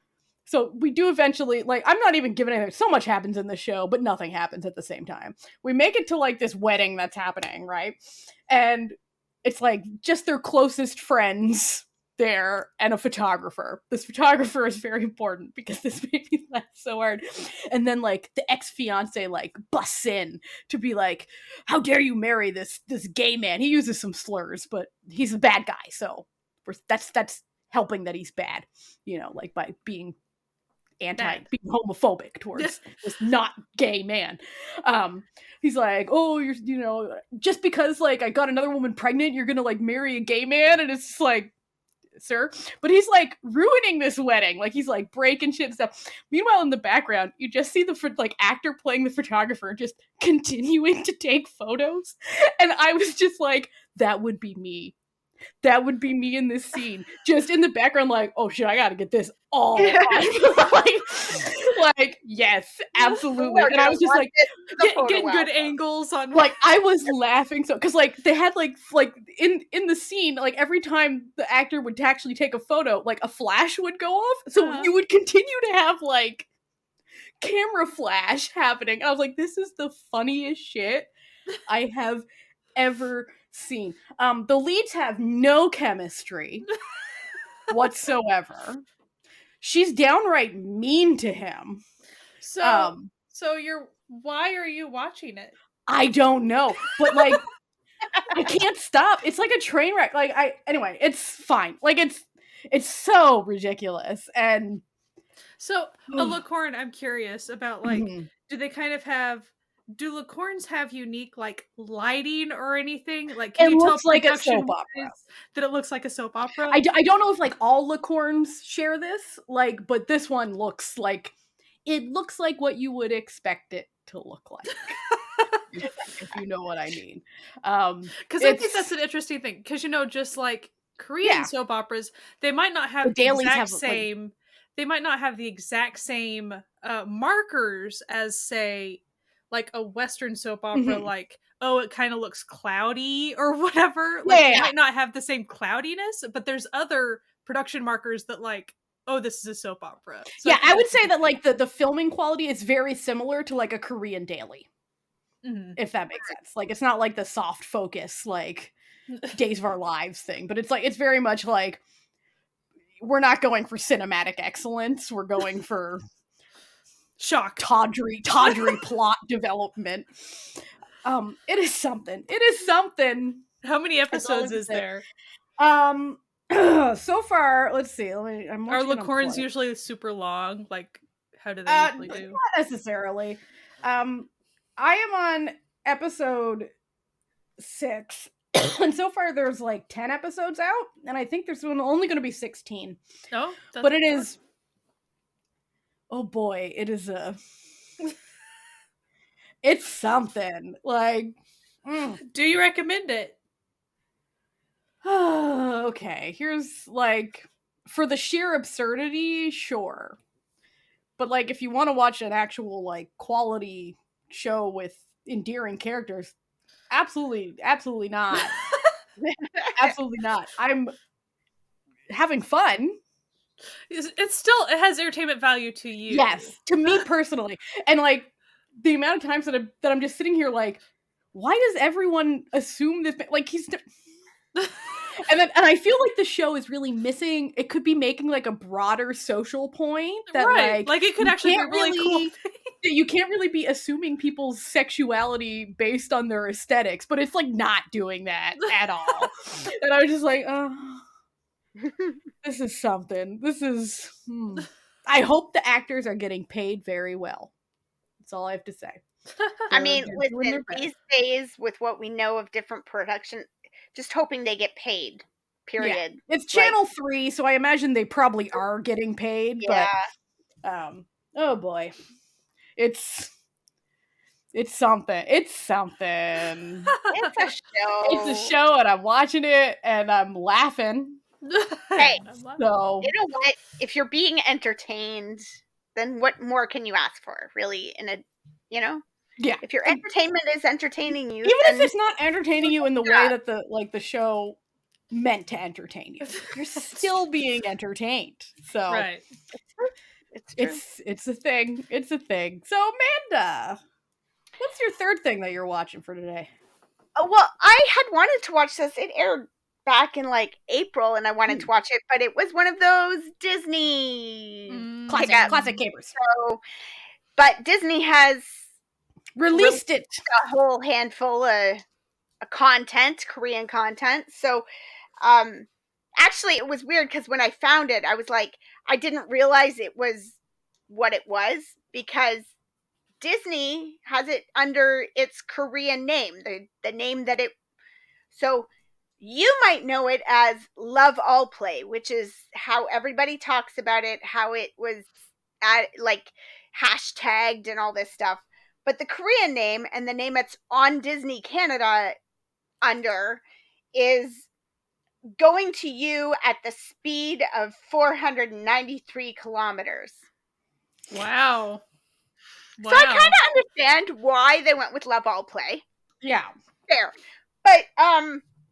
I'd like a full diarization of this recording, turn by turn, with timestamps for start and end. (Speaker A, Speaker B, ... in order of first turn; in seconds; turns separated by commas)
Speaker A: 0.5-8.0, Speaker A: 8.5-30.2, Speaker A: 31.0-41.5, Speaker B: 31.2-31.4, Speaker B: 32.6-32.9, Speaker A: 42.2-55.0, Speaker A: 55.6-64.3, Speaker C: 59.8-60.2, Speaker C: 63.4-65.7, Speaker B: 64.8-66.7, Speaker A: 66.3-76.5, Speaker B: 74.6-74.9, Speaker A: 77.4-81.1, Speaker A: 81.7-86.7, Speaker A: 87.7-88.8, Speaker A: 89.6-91.8, Speaker B: 92.4-95.5, Speaker A: 92.6-93.1, Speaker A: 95.9-97.4, Speaker A: 98.3-104.8, Speaker B: 105.6-116.8, Speaker A: 106.1-106.4, Speaker A: 107.8-108.3, Speaker A: 113.6-115.1, Speaker A: 116.7-121.3, Speaker A: 121.9-125.0, Speaker B: 125.1-125.5, Speaker A: 125.7-128.9, Speaker B: 128.3-151.2, Speaker A: 131.2-131.5, Speaker A: 133.0-134.1, Speaker A: 140.7-141.1, Speaker A: 144.2-144.7, Speaker A: 150.4-154.7, Speaker B: 155.4-155.8, Speaker A: 155.8-158.7, Speaker A: 159.3-161.8, Speaker A: 163.0-166.0, Speaker B: 167.2-167.7, Speaker A: 167.6-170.5, Speaker A: 171.0-173.4, Speaker B: 173.6-175.0, Speaker A: 174.1-174.8, Speaker A: 175.6-179.5, Speaker B: 178.7-182.4, Speaker A: 181.7-186.7, Speaker A: 187.6-193.0, Speaker B: 193.3-194.2, Speaker A: 193.8-194.4, Speaker A: 196.1-197.4, Speaker A: 199.6-201.3, Speaker A: 201.9-202.2, Speaker B: 202.2-203.4, Speaker A: 205.0-210.2, Speaker A: 211.2-216.3, Speaker A: 216.9-218.5, Speaker C: 219.2-219.9, Speaker A: 219.8-220.9, Speaker A: 222.1-223.0, Speaker B: 223.9-227.0, Speaker A: 226.1-230.8, Speaker A: 231.3-233.9, Speaker A: 235.2-251.0, Speaker B: 240.3-242.6, Speaker C: 251.8-252.2, Speaker A: 252.4-257.5, Speaker A: 258.2-259.0, Speaker A: 259.7-260.9, Speaker C: 259.7-266.7, Speaker A: 265.8-269.9, Speaker C: 269.6-270.0, Speaker A: 270.6-271.9, Speaker A: 272.8-273.3, Speaker A: 274.5-276.9, Speaker B: 277.1-277.5, Speaker C: 277.1-278.5, Speaker A: 278.0-281.2, Speaker B: 281.4-282.6, Speaker A: 282.6-283.1, Speaker C: 283.0-289.0, Speaker A: 289.4-290.0, Speaker C: 289.6-291.9, Speaker A: 291.4-294.6, Speaker C: 293.1-293.3, Speaker A: 295.1-299.1, Speaker B: 298.9-299.2, Speaker C: 300.4-300.8, Speaker A: 300.6-303.8, Speaker A: 304.6-306.5, Speaker C: 307.2-315.6, Speaker B: 314.7-315.8, Speaker A: 315.1-316.2, Speaker C: 316.2-316.6, Speaker C: 317.4-318.6, Speaker A: 319.4-320.2, Speaker C: 319.5-321.8, Speaker C: 322.4-324.6, Speaker C: 325.2-332.5, Speaker C: 333.2-337.6, Speaker C: 338.3-338.7, Speaker C: 339.2-345.1, Speaker C: 345.6-352.1, Speaker C: 352.8-353.4, Speaker C: 353.9-354.5, Speaker C: 355.4-360.2, Speaker B: 361.1-361.8, Speaker B: 362.8-363.4, Speaker C: 362.8-365.8, Speaker A: 366.2-366.5, Speaker C: 366.9-368.4